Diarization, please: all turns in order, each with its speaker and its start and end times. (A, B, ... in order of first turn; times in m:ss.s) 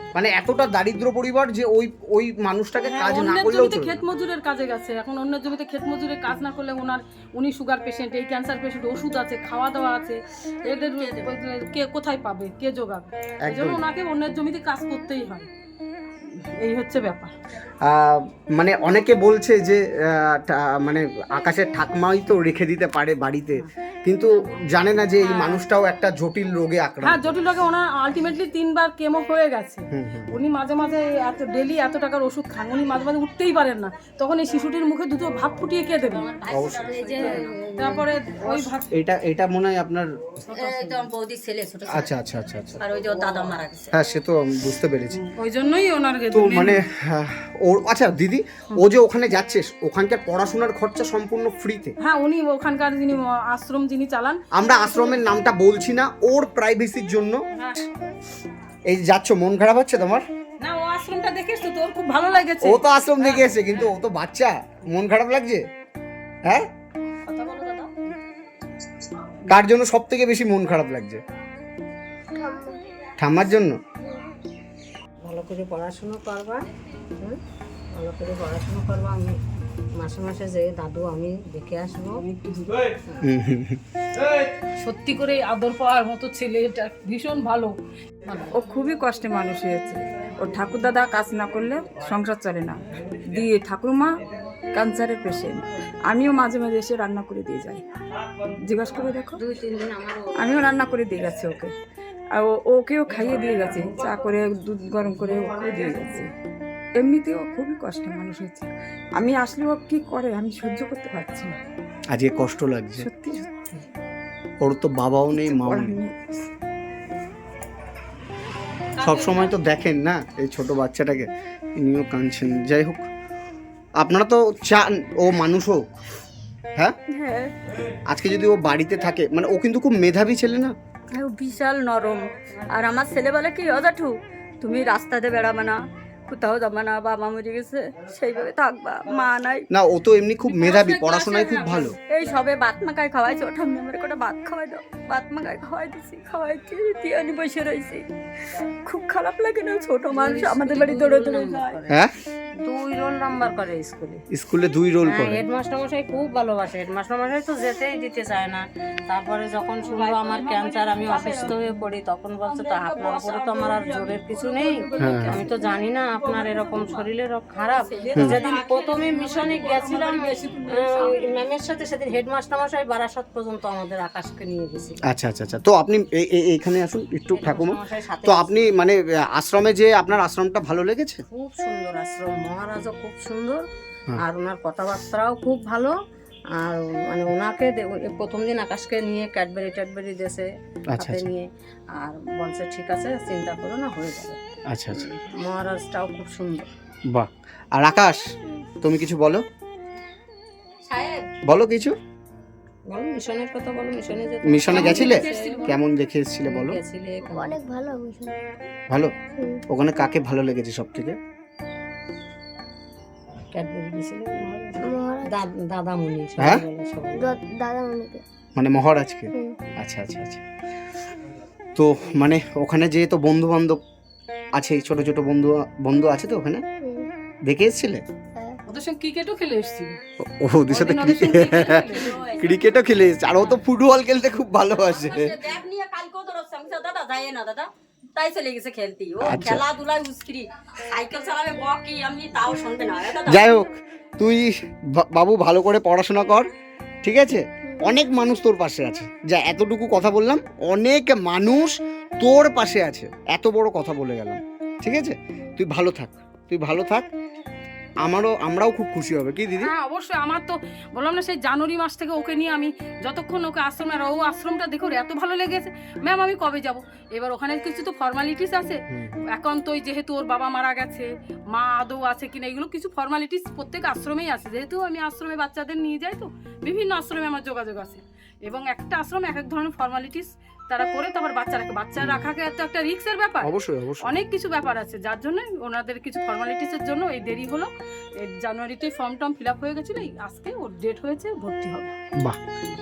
0:00.1-0:04.0 A
0:02.8-0:15.5 B
0:10.8-0:11.3 C
0:13.4-0:13.8 A
0:16.6-0:17.3 B
0:17.8-0:27.4 A
0:25.2-0:25.6 B
0:27.0-0:36.2 B
0:29.9-0:30.4 A
0:36.0-0:38.0 C
0:36.5-0:37.0 A
0:37.2-0:38.9 B
0:38.9-0:40.1 A
0:40.5-0:42.1 C
0:40.5-0:41.1 D
0:41.9-0:42.8 A
0:42.8-0:44.0 C
0:43.9-0:45.2 A
0:45.1-0:46.8 B
0:46.3-0:52.0 A
0:52.0-0:55.2 B
0:54.5-0:57.4 A
0:57.5-0:57.8 B
0:58.9-1:00.2 A
1:00.6-1:03.9 B
1:02.6-1:05.6 A
1:07.3-1:07.9 C
1:09.5-1:11.2 A
1:12.4-1:12.9 E
1:13.2-1:13.8 A
1:15.2-1:16.7 D
1:17.9-1:19.4 D
1:20.0-1:22.2 D
1:22.3-1:22.6 B
1:23.2-1:23.8 A
1:24.8-1:27.7 B
1:28.5-1:37.8 F
1:38.5-1:39.4 F
1:39.4-1:40.3 D
1:40.3-1:41.8 F
1:42.3-1:46.3 F
1:47.0-1:51.6 F
1:52.1-1:53.1 A
1:53.0-1:53.7 F
1:54.6-1:56.0 A
1:55.4-1:56.4 F
1:59.0-1:59.5 B
1:59.0-2:03.1 A
2:04.0-2:05.8 A
2:07.1-2:07.5 C
2:08.1-2:10.8 A
2:11.1-2:19.7 C
2:19.7-2:22.0 A
2:20.4-2:22.0 B
2:22.1-2:28.1 C
2:28.8-2:31.9 C
2:30.1-2:31.9 D
2:31.9-2:32.1 A
2:32.6-2:34.2 D
2:34.3-2:35.4 A
2:35.0-2:55.0 D
2:39.8-2:41.6 C
2:42.5-2:44.0 C
2:44.6-2:45.6 B
2:45.0-2:45.5 A
2:46.4-2:46.7 B
2:47.8-2:48.5 C
2:48.0-2:51.3 B
2:55.1-3:01.2 A
2:57.3-2:58.7 D
3:01.3-3:03.6 D
3:04.2-3:05.9 D
3:06.6-3:10.5 D
3:10.9-3:11.3 A
3:11.0-3:14.4 D
3:14.7-3:15.1 A
3:14.9-3:16.7 D
3:17.1-3:18.2 A
3:18.8-3:19.4 A
3:20.9-3:21.3 C
3:21.5-3:22.0 A
3:22.9-3:25.7 D
3:24.4-3:26.8 A
3:24.7-3:25.8 B
3:26.5-3:27.6 D
3:27.2-3:28.4 E
3:29.4-3:29.6 E
3:29.7-3:31.2 A
3:33.5-3:37.4 D
3:34.8-3:35.4 E
3:36.4-3:36.6 A
3:37.1-3:38.2 E
3:38.6-3:40.4 A
3:41.8-3:43.8 A
3:44.5-3:46.6 A
3:46.8-3:47.1 E
3:47.5-3:48.0 A
3:48.7-3:50.0 B
3:50.2-3:55.4 A
3:50.7-3:52.1 B
3:51.5-3:53.0 C
3:54.8-4:03.5 C
3:59.2-3:59.7 A
4:03.3-4:06.5 A
4:07.0-4:17.1 A
4:18.0-4:19.7 A
4:19.6-4:43.5 B
4:28.9-4:29.2 A
4:42.0-4:42.3 A
4:43.4-4:44.1 A
4:44.0-4:51.9 B